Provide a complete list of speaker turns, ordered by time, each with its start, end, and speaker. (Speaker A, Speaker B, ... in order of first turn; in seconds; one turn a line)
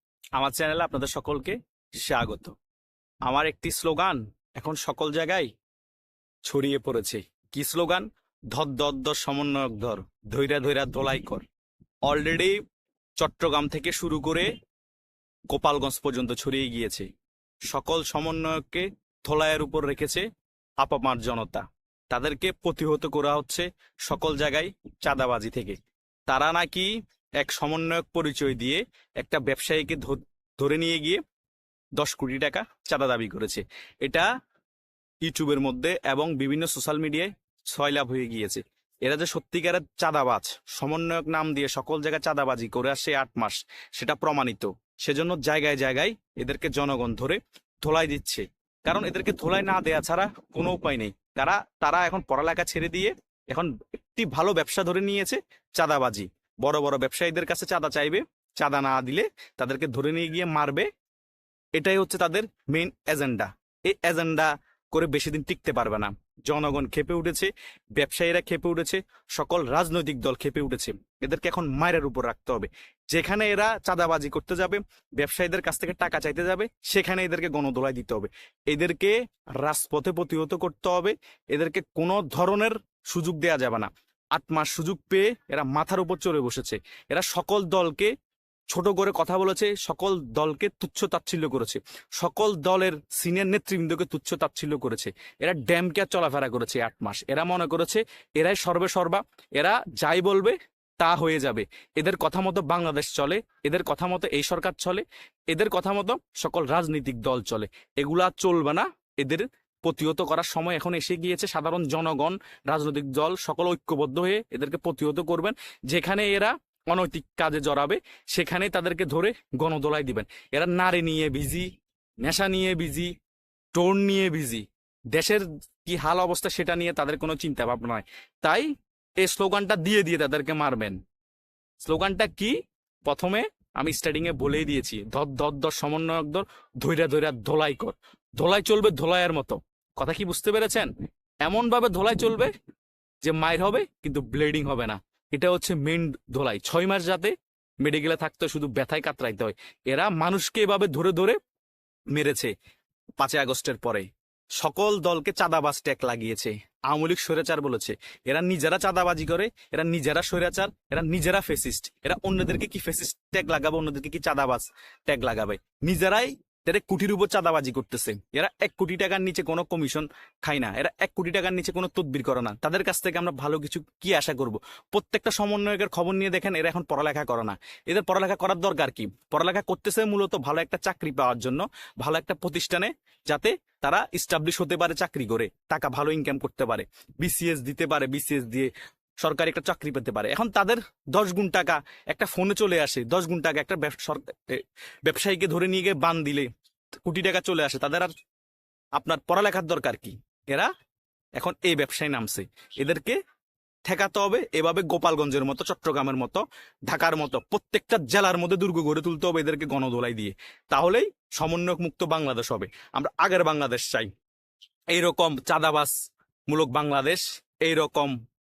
Speaker A: 0.3-2.5
Speaker A: 3.2-5.5
Speaker A: 6.4-11.4
Speaker A: 12.1-12.6
Speaker A: 13.2-14.5
Speaker A: 15.5-17.1
Speaker A: 17.7-20.2
Speaker A: 20.8-31.2
Speaker A: 32.0-34.3
Speaker A: 35.2-60.9
Speaker A: 61.8-88.1
Speaker A: 88.7-121.7
Speaker A: 122.2-123.1
Speaker A: 123.7-131.0
Speaker A: 131.8-140.9
Speaker A: 141.4-142.5
Speaker A: 143.2-151.4
Speaker A: 152.1-152.5
Speaker A: 153.2-196.5
Speaker A: 197.0-198.1
Speaker A: 198.9-200.7
Speaker A: 201.3-203.2
Speaker A: 203.8-214.1
Speaker A: 214.9-215.9
Speaker A: 216.5-218.2